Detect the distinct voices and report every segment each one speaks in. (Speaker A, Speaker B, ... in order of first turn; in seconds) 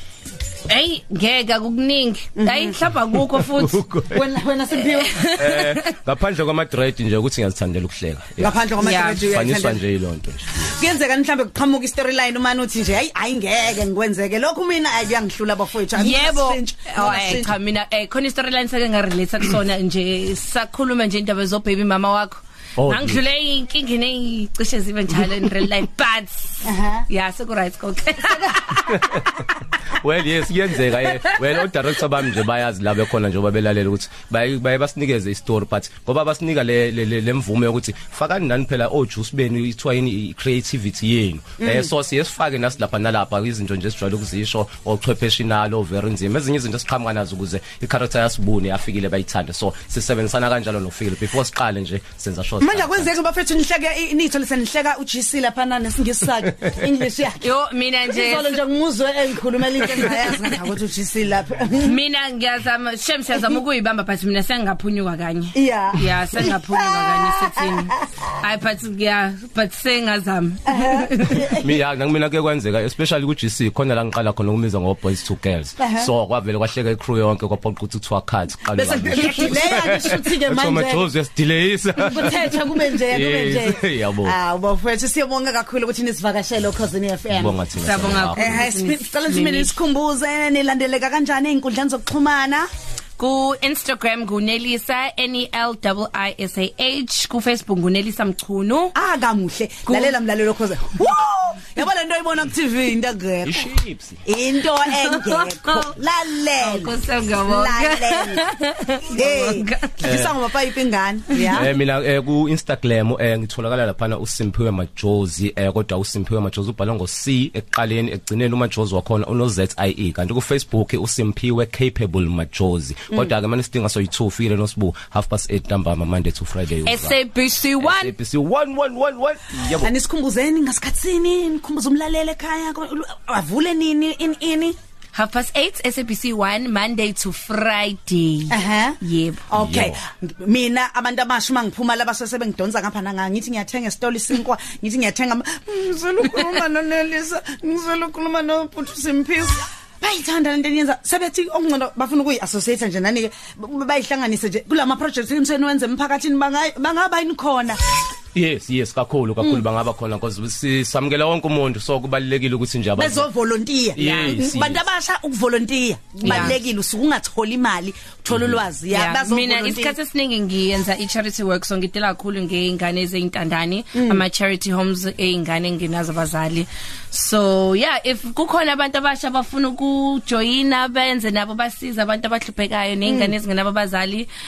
Speaker A: 0.7-3.8, 5.0-5.9, 8.8-9.2, 16.0-29.2, 31.0-31.4, 57.4-58.6, 60.0-60.4, 61.8-71.5, 87.8-89.8, 93.2-98.9, 99.9-100.1, 105.0-105.9, 106.6-110.0, 126.9-128.1, 135.1-139.4, 164.0-164.4, 166.2-166.6, 168.9-184.3
Speaker B: 2.4-2.8, 4.1-5.2, 8.4-9.8, 10.7-17.5, 26.6-27.1, 28.3-28.6, 41.6-41.9, 52.6-57.5, 58.1-62.0, 65.5-68.0, 70.7-71.7, 75.8-76.1, 78.7-81.1, 82.0-87.6, 88.4-92.7, 99.0-103.7, 104.3-108.4, 109.1-111.7, 129.8-134.8, 138.5-157.8, 163.0-169.9, 173.9-174.2, 183.1-183.3
Speaker C: 3.1-4.3, 5.3-8.6, 9.2-10.7, 22.8-23.2, 28.9-29.2, 29.9-53.1, 71.5-84.4, 87.3-88.7, 103.4-104.2, 110.0-110.4, 111.5-127.2, 127.8-129.9, 139.5-140.0, 158.3-163.3, 163.9-164.8, 166.2-166.6, 168.3-168.6